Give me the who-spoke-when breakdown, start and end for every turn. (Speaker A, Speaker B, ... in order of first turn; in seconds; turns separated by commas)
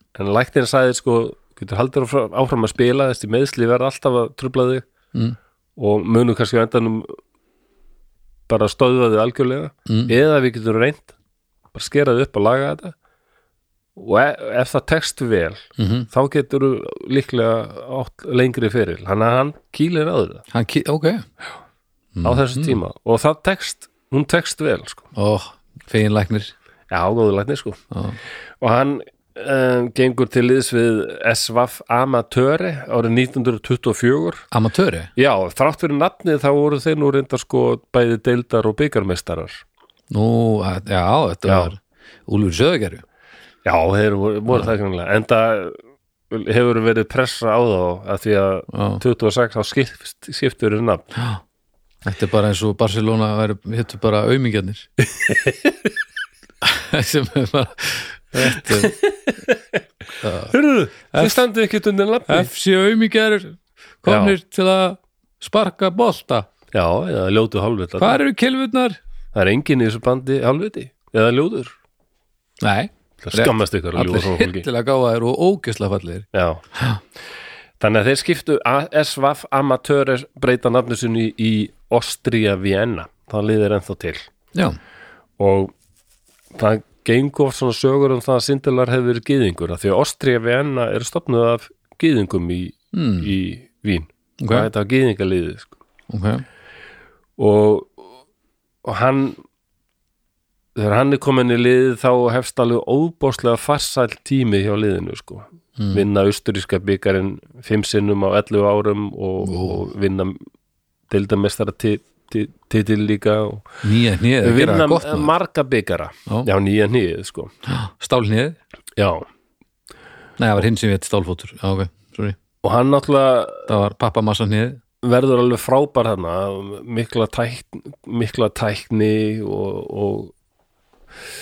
Speaker A: 0.1-4.9, Speaker A: 5.8-7.2, Speaker A: 8.5-11.1, Speaker B: 9.9-10.1, Speaker A: 11.7-12.9, Speaker A: 14.0-20.4, Speaker B: 15.8-16.1, Speaker B: 20.5-21.3, Speaker B: 22.2-22.8, Speaker A: 22.2-25.1, Speaker B: 25.1-26.5, Speaker A: 26.9-27.8, Speaker B: 27.9-28.2, Speaker A: 28.6-34.5, Speaker B: 34.5-35.1, Speaker A: 35.2-39.6, Speaker B: 40.1-43.0, Speaker A: 41.5-41.7, Speaker A: 43.6-45.8, Speaker A: 46.3-51.1, Speaker B: 48.7-49.0, Speaker B: 51.2-51.4, Speaker B: 52.0-54.9, Speaker A: 55.1-55.9, Speaker B: 56.6-59.0, Speaker A: 58.4-59.8, Speaker B: 60.2-60.5, Speaker A: 60.5-62.5, Speaker B: 61.1-61.4, Speaker B: 62.3-66.5, Speaker A: 64.1-64.4, Speaker A: 66.7-68.2, Speaker B: 68.0-69.0, Speaker A: 69.3-71.8, Speaker B: 72.6-77.0, Speaker A: 73.2-74.7, Speaker A: 76.3-76.6, Speaker A: 77.8-84.3, Speaker A: 85.4-85.7, Speaker A: 86.5-95.7, Speaker B: 92.9-93.3, Speaker B: 94.4-94.7, Speaker B: 96.1-96.4, Speaker A: 97.4-98.0, Speaker A: 98.8-99.4, Speaker A: 100.8-110.4, Speaker B: 109.4-109.8, Speaker A: 111.1-113.8, Speaker B: 113.8-115.3, Speaker A: 114.4-117.5, Speaker B: 117.7-118.6, Speaker A: 119.0-119.3, Speaker B: 120.4-122.4, Speaker A: 122.6-123.7, Speaker B: 123.7-124.8, Speaker A: 125.0-130.3